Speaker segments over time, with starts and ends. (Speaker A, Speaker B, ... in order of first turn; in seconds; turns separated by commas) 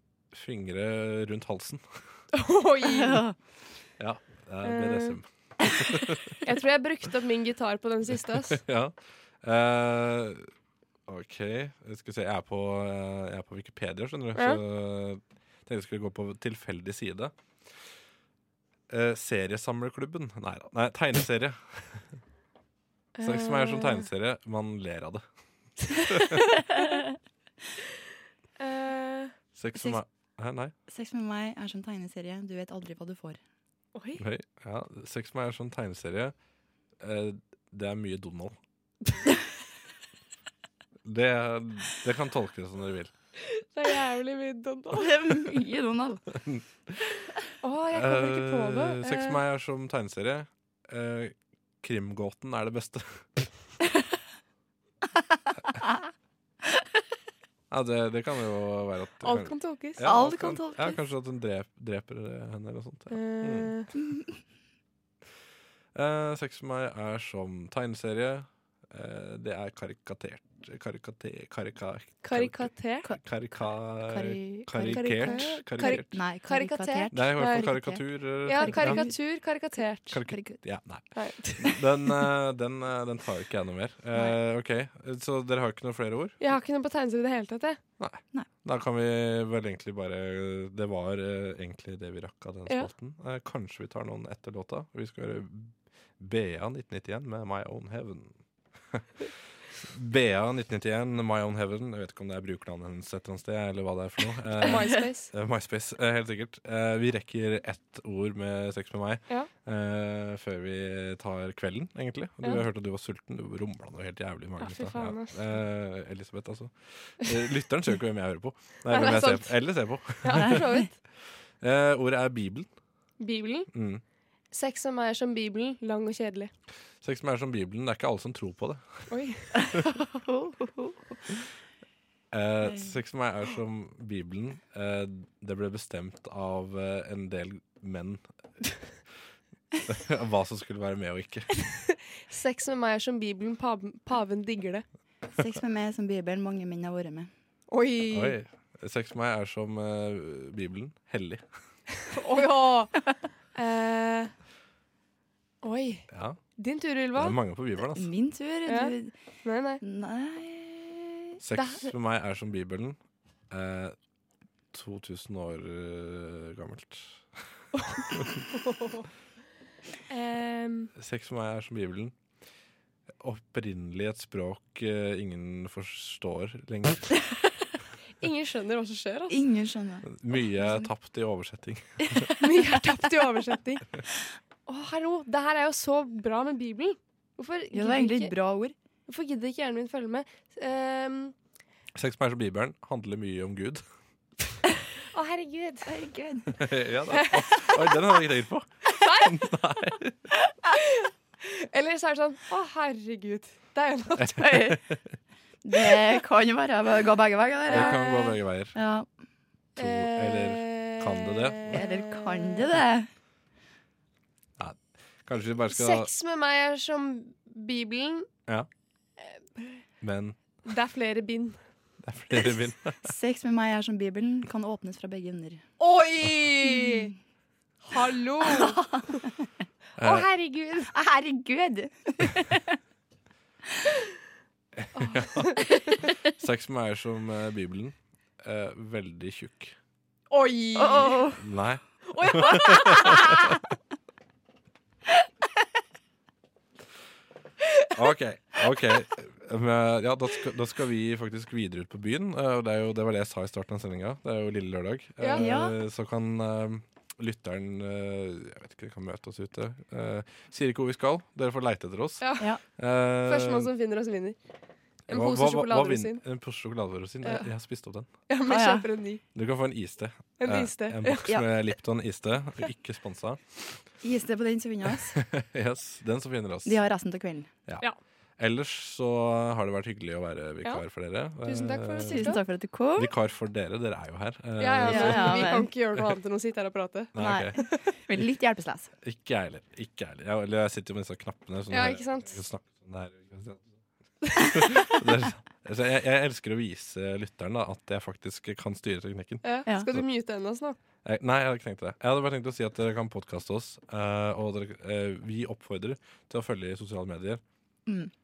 Speaker A: 0.3-2.0, Speaker B: 2.3-3.2, Speaker C: 2.9-3.4, Speaker A: 4.0-6.4, Speaker B: 4.6-5.2, Speaker B: 6.4-8.6, Speaker A: 8.5-10.5, Speaker A: 11.1-17.3, Speaker B: 14.3-14.6, Speaker A: 18.9-22.1, Speaker B: 23.2-24.0, Speaker A: 23.2-25.2, Speaker A: 25.9-26.5, Speaker B: 28.6-29.3, Speaker A: 29.6-30.7, Speaker C: 29.8-30.0, Speaker C: 30.9-33.4, Speaker B: 34.0-34.2, Speaker A: 34.2-36.4, Speaker A: 37.0-38.5, Speaker A: 41.1-43.1, Speaker B: 43.5-45.3, Speaker C: 44.9-46.2, Speaker A: 46.4-47.1, Speaker B: 47.6-49.4, Speaker A: 47.9-53.5, Speaker A: 57.7-63.7, Speaker B: 59.2-60.1, Speaker C: 60.0-61.0, Speaker B: 63.1-63.9, Speaker C: 64.0-64.3, Speaker A: 66.0-76.1, Speaker B: 72.2-73.1, Speaker C: 73.0-79.2, Speaker B: 74.9-77.9, Speaker A: 77.1-79.3, Speaker B: 78.4-80.2, Speaker A: 80.1-86.4, Speaker C: 80.2-80.6, Speaker B: 81.1-81.7, Speaker B: 86.4-87.8, Speaker A: 88.0-120.7, Speaker B: 104.6-105.3, Speaker B: 114.6-115.4, Speaker B: 118.9-119.5, Speaker B: 120.2-120.9, Speaker A: 121.6-122.7, Speaker B: 123.2-123.7, Speaker A: 123.7-124.0, Speaker B: 124.5-126.5, Speaker A: 127.0-129.9, Speaker B: 129.1-129.5, Speaker C: 130.0-131.2, Speaker A: 132.3-138.2, Speaker A: 139.9-141.7, Speaker B: 142.2-144.8, Speaker C: 145.3-147.3, Speaker B: 147.7-148.4, Speaker A: 148.1-151.4, Speaker B: 152.1-153.0, Speaker B: 153.5-154.3, Speaker B: 155.6-156.1, Speaker A: 156.1-156.4, Speaker B: 156.6-157.3, Speaker A: 157.2-158.1, Speaker C: 157.9-159.1, Speaker B: 158.7-159.8, Speaker C: 159.8-161.4, Speaker A: 161.4-163.0, Speaker B: 161.5-161.9, Speaker A: 163.5-164.0, Speaker A: 164.7-167.4, Speaker B: 168.5-169.1, Speaker B: 170.1-170.9, Speaker A: 171.0-172.2, Speaker A: 173.2-177.2, Speaker B: 178.2-179.4, Speaker C: 179.3-180.8, Speaker A: 180.1-182.4, Speaker B: 182.4-183.8, Speaker B: 184.7-188.3, Speaker C: 187.7-188.8, Speaker B: 189.1-191.3, Speaker A: 191.9-193.8, Speaker B: 195.1-195.9, Speaker C: 195.8-196.6, Speaker A: 196.6-200.2, Speaker B: 199.0-199.3, Speaker B: 200.8-204.5, Speaker C: 204.3-204.8, Speaker A: 204.3-205.0, Speaker C: 205.6-208.1, Speaker B: 207.7-208.3, Speaker A: 207.7-208.8, Speaker C: 208.7-209.1, Speaker A: 209.8-211.8, Speaker B: 209.8-212.7, Speaker C: 211.7-213.1, Speaker A: 214.6-216.1, Speaker B: 215.7-218.3, Speaker A: 220.0-220.4, Speaker B: 220.7-221.6, Speaker A: 222.0-223.1, Speaker C: 223.0-225.6, Speaker B: 225.8-227.1, Speaker C: 226.6-227.1, Speaker B: 227.8-228.8, Speaker C: 228.4-229.3, Speaker A: 230.0-230.3, Speaker B: 230.0-230.9, Speaker C: 230.9-232.8, Speaker A: 234.8-239.8, Speaker B: 234.9-236.0, Speaker B: 240.3-241.2, Speaker C: 240.8-241.4, Speaker A: 241.4-243.6, Speaker B: 242.1-243.6, Speaker A: 247.9-263.7, Speaker B: 255.2-255.5, Speaker C: 255.3-255.8, Speaker B: 262.2-262.5, Speaker B: 263.2-264.4, Speaker B: 265.1-266.2, Speaker A: 265.1-268.1, Speaker B: 267.2-267.5, Speaker B: 268.3-269.2, Speaker C: 268.5-268.9, Speaker A: 269.3-273.8, Speaker B: 270.4-271.3, Speaker C: 274.0-275.2, Speaker A: 275.1-276.8, Speaker C: 276.6-277.5, Speaker A: 277.7-282.4, Speaker B: 281.4-282.4, Speaker C: 282.0-283.1, Speaker A: 283.0-285.6, Speaker B: 284.6-287.9, Speaker C: 284.9-285.7, Speaker A: 287.1-287.6, Speaker C: 287.2-288.9, Speaker A: 289.0-293.7, Speaker B: 291.7-292.4, Speaker A: 294.3-300.0, Speaker B: 299.4-300.8, Speaker A: 301.0-307.4, Speaker C: 307.9-308.1